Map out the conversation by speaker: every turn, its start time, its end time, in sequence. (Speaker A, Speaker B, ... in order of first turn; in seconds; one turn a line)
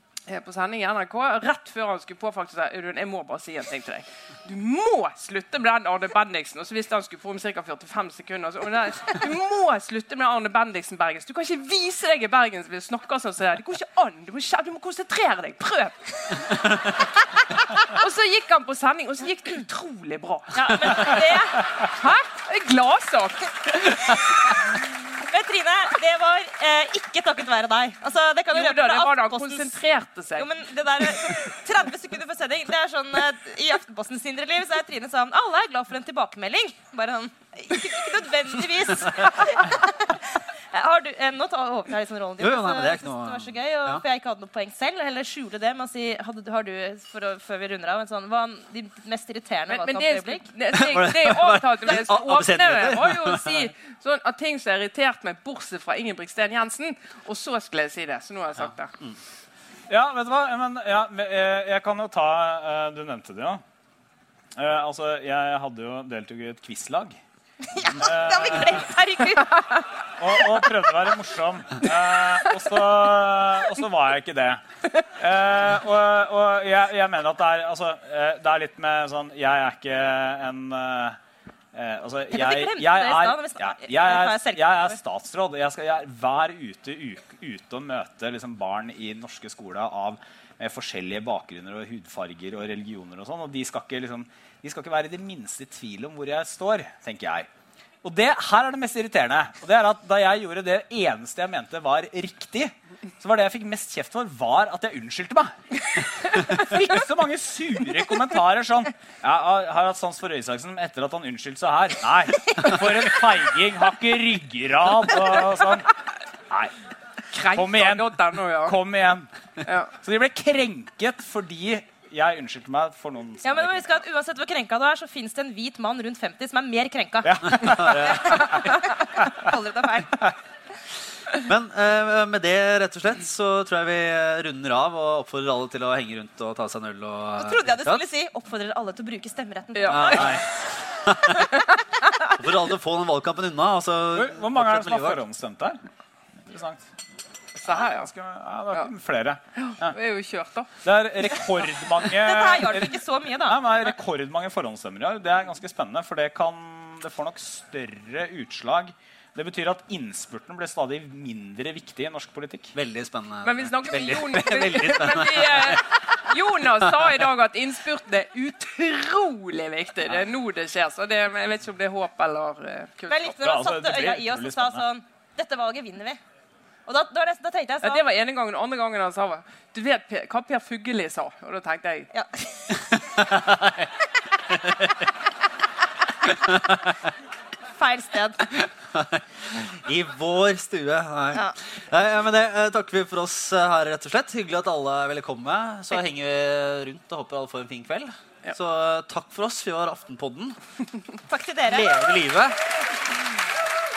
Speaker A: 0.3-17.1
Speaker A: 17.7-24.2
Speaker B: 20.6-21.8
Speaker B: 24.6-29.8
Speaker A: 28.5-30.5
Speaker B: 30.4-50.5
Speaker C: 42.4-44.0
Speaker A: 49.7-58.9
Speaker C: 50.7-53.7
Speaker C: 58.6-59.2
Speaker D: 59.9-63.6
Speaker D: 64.6-67.2
Speaker B: 67.7-70.1
Speaker D: 68.0-69.0
Speaker D: 70.1-81.2
Speaker D: 81.7-97.5
Speaker B: 82.3-85.0
Speaker D: 98.0-115.9
Speaker D: 116.5-116.8
Speaker A: 117.3-118.8
Speaker D: 117.5-119.3
Speaker A: 119.6-119.9
Speaker D: 119.9-123.9
Speaker B: 123.4-130.3
Speaker D: 127.2-128.6
Speaker C: 127.8-128.1
Speaker C: 131.3-138.0
Speaker B: 137.4-140.4
Speaker A: 139.8-140.6
Speaker C: 139.9-141.5
Speaker A: 141.3-141.8
Speaker C: 142.3-145.2
Speaker D: 144.1-145.8
Speaker D: 146.5-146.8
Speaker A: 147.6-148.1
Speaker D: 148.0-149.9
Speaker A: 149.6-150.7
Speaker D: 150.8-162.7
Speaker B: 152.1-153.8
Speaker C: 162.8-166.2
Speaker A: 163.4-173.3
Speaker C: 166.8-167.0
Speaker B: 173.1-176.2
Speaker D: 173.4-174.8
Speaker B: 176.9-178.1
Speaker A: 177.8-182.1
Speaker B: 182.1-182.8
Speaker C: 182.8-183.9
Speaker C: 184.5-185.1
Speaker C: 186.3-187.0
Speaker B: 187.8-188.4
Speaker C: 188.5-200.6
Speaker B: 201.3-202.1
Speaker C: 201.7-202.6